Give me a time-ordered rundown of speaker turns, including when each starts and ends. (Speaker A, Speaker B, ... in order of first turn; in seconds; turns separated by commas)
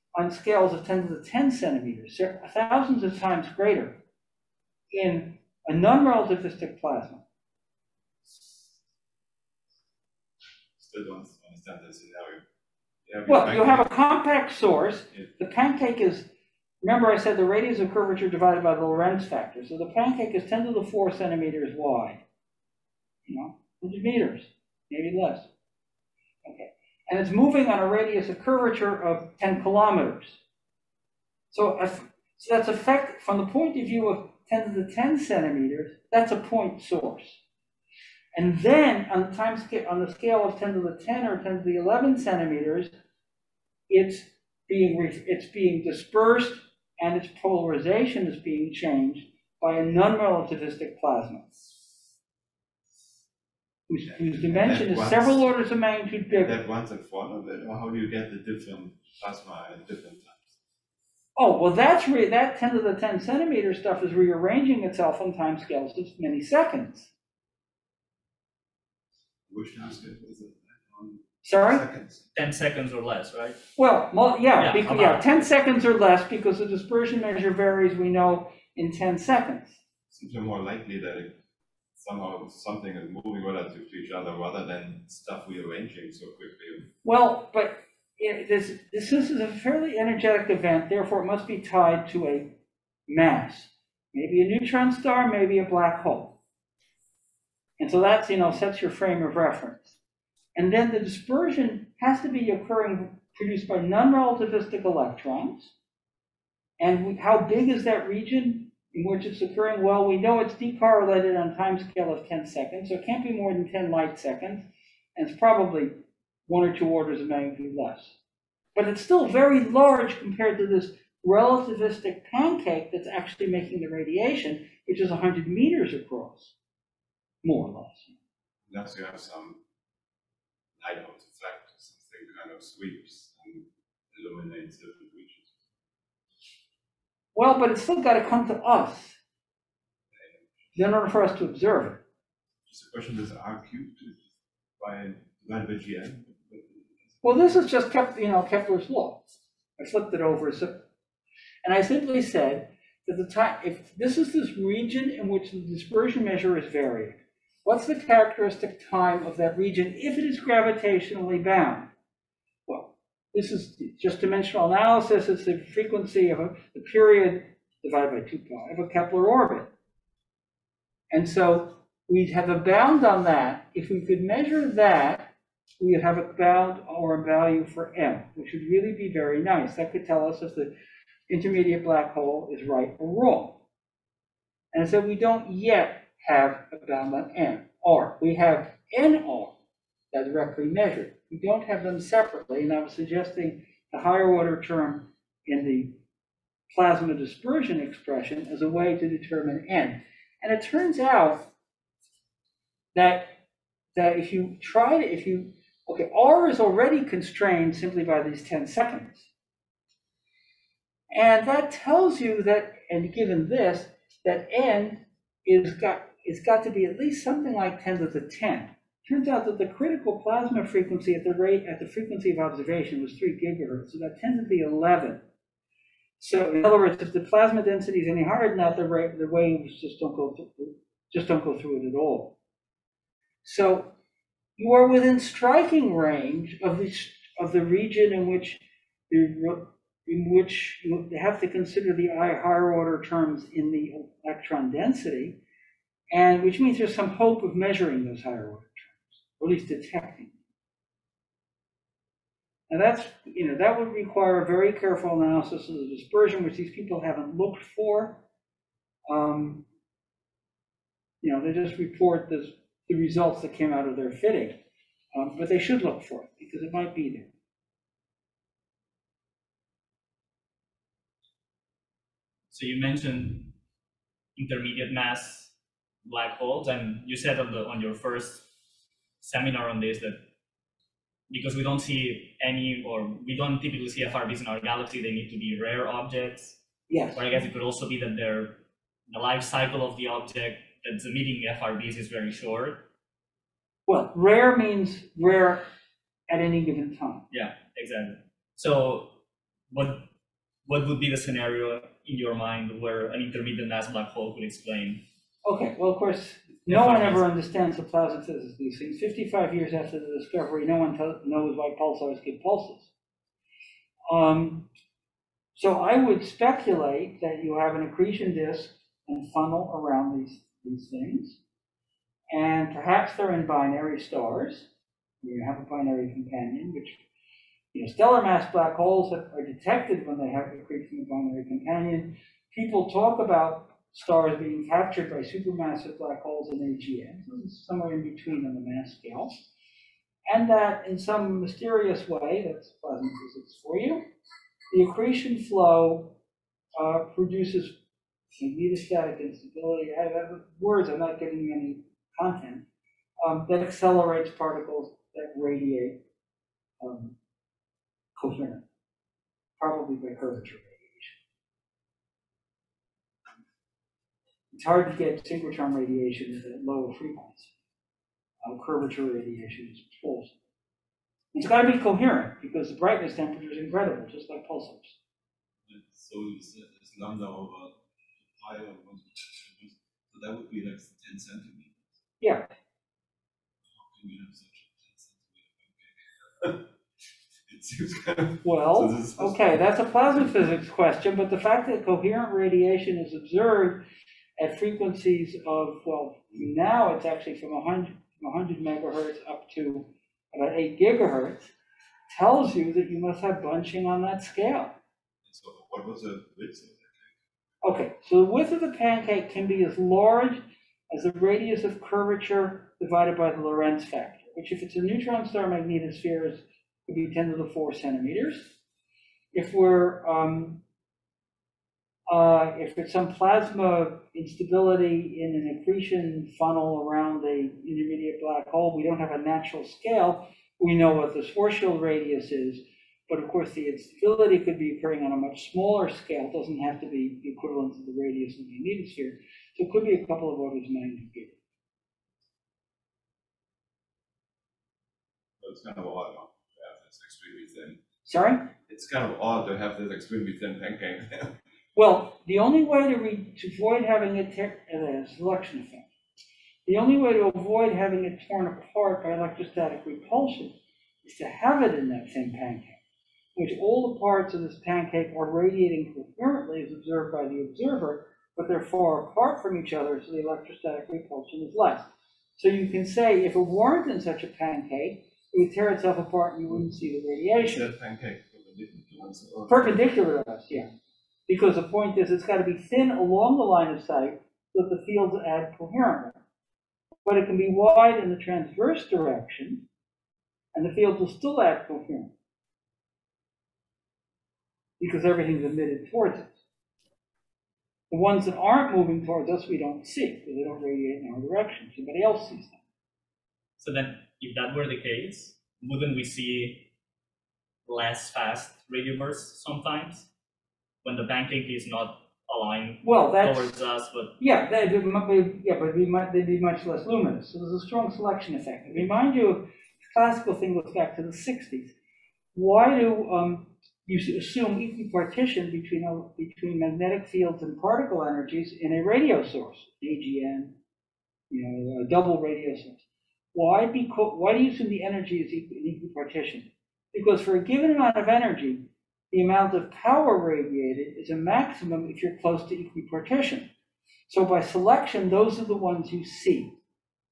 Speaker A: 0.2-4.0, Speaker A: 4.9-7.2, Speaker B: 10.8-12.4, Speaker B: 13.1-13.9, Speaker A: 13.3-16.3, Speaker A: 16.8-22.2, Speaker A: 23.3-25.5, Speaker A: 26.4-30.4, Speaker A: 31.5-37.4, Speaker A: 38.3-42.9, Speaker A: 43.9-51.6, Speaker A: 53.9-56.6, Speaker B: 54.5-55.5, Speaker B: 56.3-60.5, Speaker A: 61.4-67.1, Speaker B: 69.5-72.3, Speaker A: 71.4-71.8, Speaker C: 72.3-73.6, Speaker A: 73.8-79.8, Speaker C: 74.6-75.3, Speaker B: 80.1-81.4, Speaker B: 82.0-86.9, Speaker A: 87.0-92.5, Speaker A: 93.1-96.4, Speaker A: 97.8-100.0, Speaker A: 100.5-105.7, Speaker A: 106.8-118.2, Speaker A: 118.8-126.5, Speaker A: 127.4-128.2, Speaker B: 128.7-129.6, Speaker B: 130.8-135.6, Speaker A: 137.3-139.2, Speaker B: 140.1-140.8, Speaker A: 140.8-142.0, Speaker B: 142.7-144.2, Speaker B: 144.8-147.5, Speaker A: 147.2-149.2, Speaker A: 149.8-150.8, Speaker A: 151.6-161.9, Speaker A: 162.7-169.7, Speaker A: 171.1-180.7, Speaker A: 181.3-183.6, Speaker A: 184.7-189.6, Speaker A: 190.1-196.0, Speaker A: 196.7-201.5, Speaker A: 202.9-203.3, Speaker A: 203.9-209.3, Speaker A: 211.1-225.2, Speaker A: 226.2-232.4, Speaker A: 233.4-233.9, Speaker A: 234.6-245.4, Speaker A: 246.1-250.3, Speaker A: 252.7-258.2, Speaker A: 259.1-259.6, Speaker A: 261.2-264.6, Speaker A: 265.1-267.3, Speaker C: 272.5-273.5, Speaker C: 274.4-275.5, Speaker C: 276.1-278.5, Speaker C: 279.2-280.2, Speaker C: 281.3-286.6, Speaker A: 286.9-287.3, Speaker C: 287.1-292.9, Speaker A: 293.9-295.6, Speaker A: 296.3-297.2, Speaker C: 297.3-299.2, Speaker C: 299.7-300.1, Speaker C: 300.7-305.0, Speaker A: 305.4-312.9, Speaker C: 306.7-307.3, Speaker A: 314.1-314.7, Speaker A: 315.6-321.4, Speaker A: 322.3-324.7, Speaker A: 325.2-327.0, Speaker A: 327.7-339.5, Speaker A: 340.3-344.0, Speaker A: 344.7-346.2, Speaker A: 346.8-347.8, Speaker A: 348.3-352.6, Speaker A: 353.2-356.0, Speaker A: 356.8-357.1, Speaker A: 358.2-358.6, Speaker A: 359.6-361.2, Speaker A: 364.5-367.5, Speaker A: 368.4-370.4, Speaker A: 371.3-375.0, Speaker B: 375.7-381.8, Speaker A: 382.2-382.5, Speaker B: 383.7-386.7, Speaker B: 387.5-389.4, Speaker A: 388.4-393.9, Speaker A: 394.4-401.5, Speaker A: 402.1-404.8, Speaker B: 405.3-407.1, Speaker A: 407.6-418.5, Speaker A: 419.3-420.6, Speaker A: 422.1-441.4, Speaker B: 445.4-447.8, Speaker A: 448.1-448.5, Speaker B: 448.7-451.4, Speaker A: 451.8-455.9, Speaker A: 456.7-462.8, Speaker A: 463.4-477.7, Speaker B: 477.4-479.8, Speaker A: 479.5-480.7, Speaker A: 481.3-486.2, Speaker A: 487.1-489.7, Speaker A: 490.5-492.1, Speaker A: 494.8-496.3, Speaker A: 497.9-502.6, Speaker C: 503.6-506.7, Speaker C: 507.7-510.1, Speaker C: 510.8-514.2, Speaker A: 512.8-513.6, Speaker A: 514.2-521.7, Speaker A: 522.3-530.6, Speaker A: 531.3-532.8, Speaker A: 533.3-543.5, Speaker A: 544.1-546.6